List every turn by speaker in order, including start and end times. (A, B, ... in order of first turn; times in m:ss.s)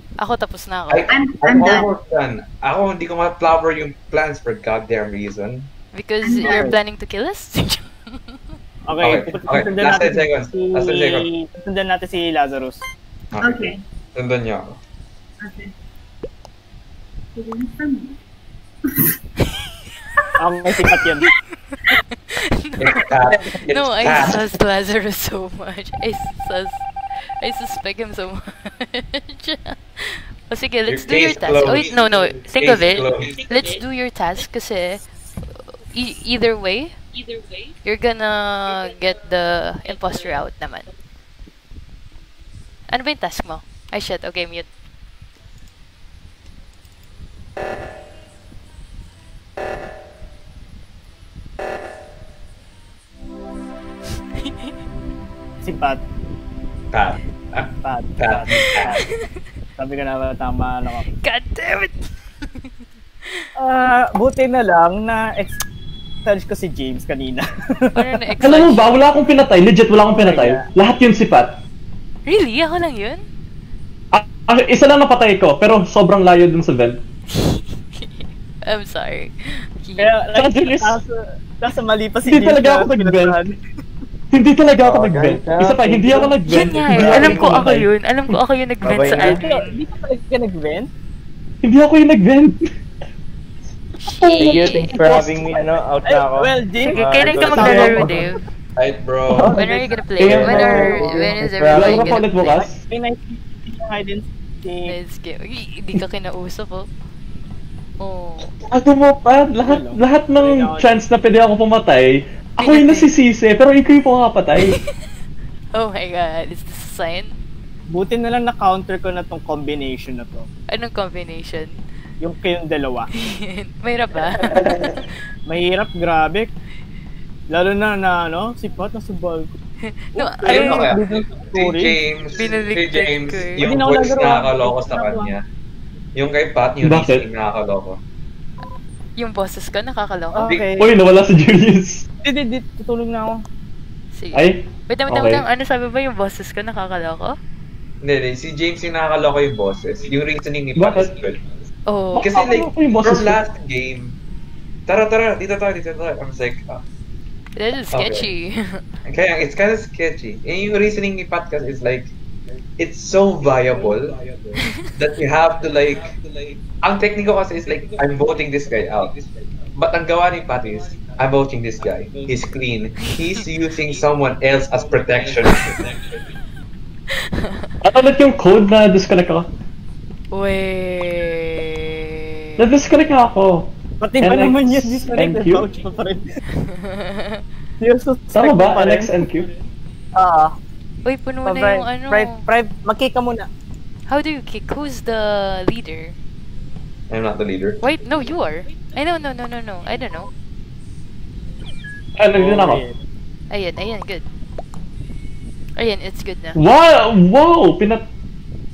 0:00.2-0:01.1 A
0:00.9-0:05.7 B
0:01.1-0:01.9 C
0:05.9-0:08.4 A
0:06.2-0:06.8 C
0:06.4-0:06.8 D
0:08.9-0:12.8 D
0:09.0-0:11.3 B
0:13.3-0:14.8 B
0:13.4-0:13.8 C
0:15.4-0:15.7 C
0:17.3-0:18.2 C
0:20.4-0:21.3 D
0:21.2-0:23.0 A
0:22.8-0:24.5 B
0:23.7-0:37.0 A
0:30.9-0:33.4 B
0:37.8-0:40.9 A
0:42.9-0:44.7 A
0:54.4-0:54.7 A
0:55.6-0:56.0 D
0:56.9-0:59.0 B
0:57.8-0:59.0 D
0:58.8-0:59.4 A
0:59.8-1:01.0 D
1:01.2-1:02.7 A
1:03.6-1:05.6 D
1:06.2-1:07.4 D
1:07.9-1:08.9 A
1:08.4-1:11.6 E
1:10.1-1:10.6 D
1:12.2-1:13.2 A
1:14.1-1:17.0 E
1:17.3-1:20.1 A
1:20.0-1:23.6 D
1:20.3-1:21.0 E
1:22.2-1:23.4 E
1:24.3-1:27.8 E
1:24.8-1:27.9 F
1:26.4-1:29.7 A
1:28.8-1:29.4 F
1:29.0-1:30.9 D
1:31.6-1:32.7 E
1:34.0-1:35.0 A
1:34.2-1:35.4 E
1:34.4-1:38.3 F
1:36.0-1:37.8 D
1:36.8-1:38.4 A
1:37.4-1:38.0 E
1:38.8-1:39.5 B
1:39.3-1:42.1 F
1:39.5-1:42.6 A
1:40.2-1:42.8 E
1:42.9-1:44.9 D
1:44.9-1:46.9 A
1:48.0-1:48.5 A
1:48.6-1:54.7 E
1:49.6-1:50.9 D
1:52.6-1:53.1 A
1:55.7-1:57.4 A
1:57.9-2:00.5 D
2:00.7-2:01.8 A
2:02.2-2:03.1 D
2:03.2-2:05.1 A
2:04.6-2:05.0 E
2:05.5-2:06.5 D
2:07.5-2:09.5 D
2:09.8-2:11.0 A
2:10.1-2:12.0 D
2:10.4-2:15.4 B
2:12.3-2:13.7 A
2:13.6-2:15.3 D
2:16.1-2:18.0 B
2:16.8-2:17.2 E
2:19.1-2:20.5 A
2:20.3-2:20.9 D
2:20.8-2:22.0 E
2:22.2-2:23.3 D
2:24.1-2:27.3 A
2:24.3-2:25.4 E
2:28.0-2:31.4 B
2:30.8-2:31.1 E
2:31.9-2:32.3 A
2:32.1-2:33.4 E
2:32.2-2:34.2 B
2:34.9-2:36.8 B
2:37.5-2:38.8 A
2:37.9-2:38.3 B
2:39.0-2:42.1 B
2:42.8-2:46.2 B
2:46.8-2:49.2 B
2:49.7-2:56.0 B
2:57.3-2:57.7 A
2:57.8-2:59.5 E
3:00.3-3:02.6 A
3:02.6-3:05.6 E
3:04.0-3:06.2 D
3:06.6-3:07.4 A
3:07.8-3:09.1 D
3:08.3-3:09.5 E
3:10.1-3:10.6 D
3:11.0-3:12.4 A
3:11.4-3:13.5 D
3:14.1-3:16.1 A
3:17.1-3:17.8 B
3:17.8-3:20.3 A
3:22.2-3:22.8 E
3:22.3-3:22.9 D
3:23.5-3:24.2 A
3:25.8-3:26.6 A
3:26.6-3:28.0 E